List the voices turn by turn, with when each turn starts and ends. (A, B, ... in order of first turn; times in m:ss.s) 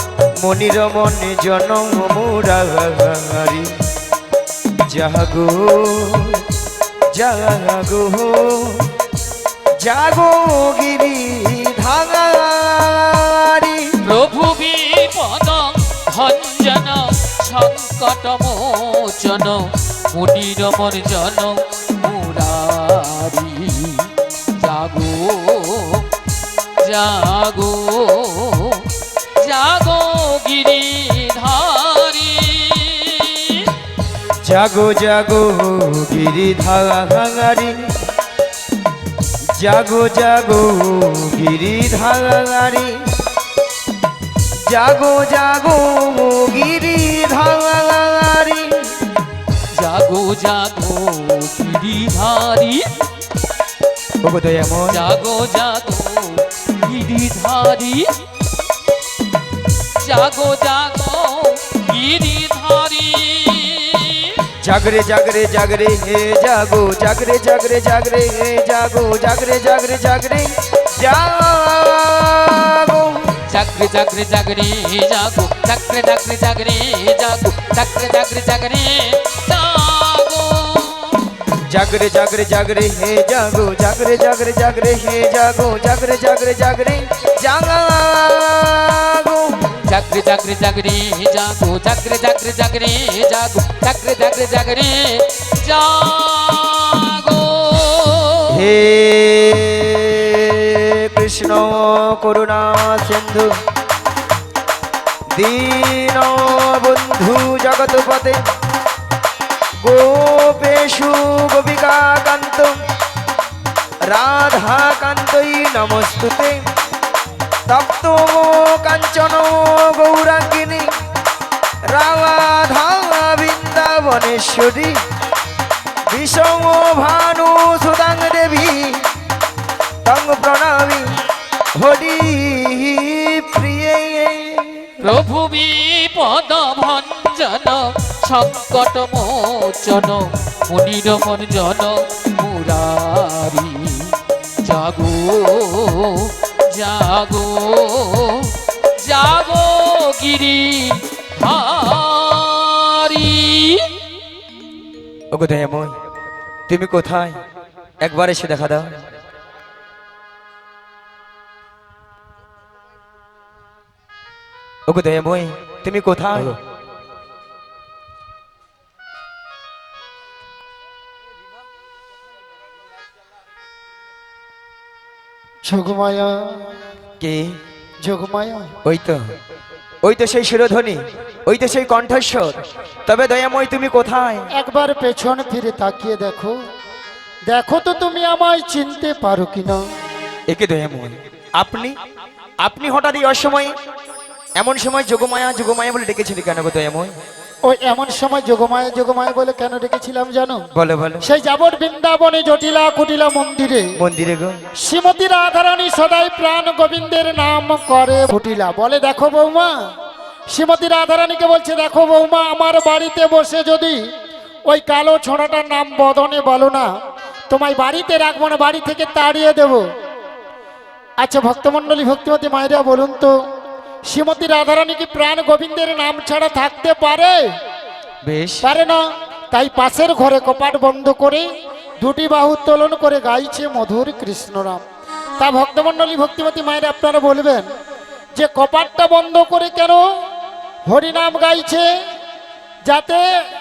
0:00.4-0:03.7 A
0:04.9-0:06.4 A
0:07.1-0:08.9 A
0:09.8-0:14.0 A
0:14.0-0:26.1 B
0:26.8-0:33.7 B
0:34.4-0:37.9 A
0:39.6-0:43.1 A
0:44.7-0:48.9 A
0:49.7-0:53.0 B
0:54.2-0:55.0 A
0:54.9-0:58.1 B
1:00.0-1:04.4 B
1:04.6-1:13.4 A
1:13.5-1:21.3 B
1:21.7-1:29.8 A
1:29.8-1:38.6 B
1:38.5-1:43.5 A
1:45.3-1:48.4 A
1:49.8-1:52.8 A
1:54.1-1:56.6 A
1:57.7-2:00.9 A
2:01.9-2:05.0 A
2:06.1-2:09.0 A
2:10.0-2:11.2 A
2:11.8-2:15.0 A
2:15.0-2:33.9 B
2:35.3-2:36.0 A
2:36.7-2:37.4 A
2:38.0-2:39.0 A
2:44.9-2:46.6 A
2:55.6-2:56.7 C
2:57.2-2:57.6 A
2:58.0-2:58.7 C
2:58.8-2:59.3 A
3:00.0-3:04.5 A
3:04.5-3:06.6 C
3:07.5-3:09.8 C
3:10.5-3:12.0 A
3:12.6-3:13.7 A
3:14.6-3:17.1 A
3:17.7-3:20.6 C
3:20.7-3:21.3 A
3:21.2-3:23.9 C
3:24.0-3:24.6 A
3:24.8-3:29.8 C
3:30.5-3:34.0 C
3:34.7-3:36.9 C
3:37.5-3:39.8 C
3:41.2-3:43.3 C
3:44.1-3:47.5 C
3:48.2-3:48.7 A
3:48.6-3:51.5 C
3:52.0-3:54.8 C
3:55.4-3:57.7 C
3:58.4-4:00.0 C
4:00.9-4:01.9 C
4:02.9-4:03.2 C